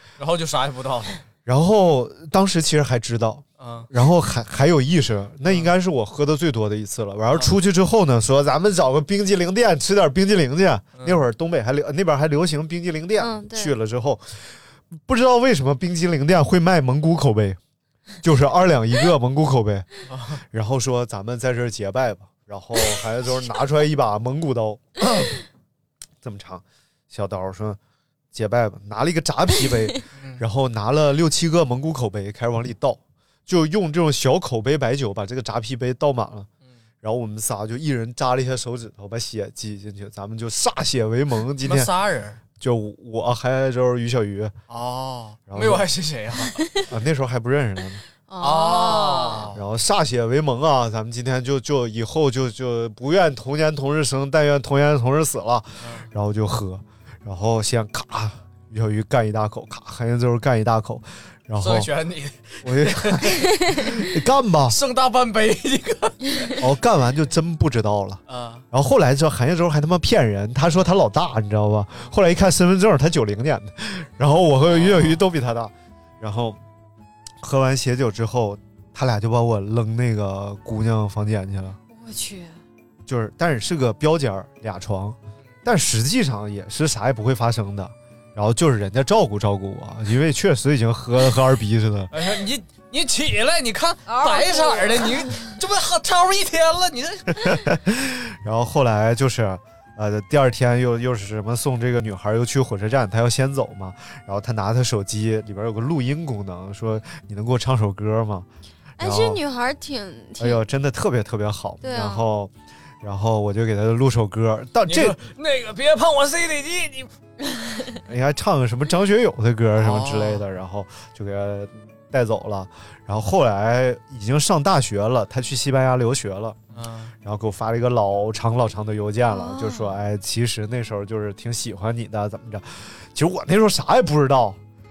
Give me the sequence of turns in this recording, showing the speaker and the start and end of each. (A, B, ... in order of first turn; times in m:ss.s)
0:00.2-0:01.2 A
0:01.4-0:17.6 B
0:03.6-0:03.9 A
0:05.4-0:05.7 A
0:11.0-0:11.2 A
0:13.2-0:13.8 C
0:18.2-0:25.3 B
0:20.1-0:20.4 A
0:26.2-0:27.8 B
0:28.3-0:36.5 B
0:30.2-0:30.4 A
0:37.0-0:41.9 B
0:41.6-0:42.4 A
0:42.6-0:44.6 B
0:44.7-0:46.7 A
0:45.5-0:45.9 B
0:46.9-0:48.0 B
0:48.3-0:49.5 C
0:48.4-0:49.6 A
0:49.5-1:01.9 B
0:55.8-0:56.1 A
1:01.6-1:04.1 A
1:02.6-1:04.8 B
1:04.7-1:06.6 A
1:06.6-1:16.6 B
1:08.3-1:08.6 A
1:14.7-1:15.2 A
1:17.4-1:21.8 B
1:21.9-1:22.6 C
1:23.1-1:32.1 B
1:32.1-1:37.7 A
1:34.1-1:35.4 C
1:37.4-1:48.5 B
1:49.0-1:49.4 B
1:49.0-1:50.6 C
1:50.4-1:55.2 B
1:51.8-1:52.3 C
1:54.9-1:57.1 A
1:58.0-2:06.6 B
1:59.8-2:00.4 A
2:06.7-2:07.1 A
2:07.2-2:14.6 B
2:09.3-2:10.0 C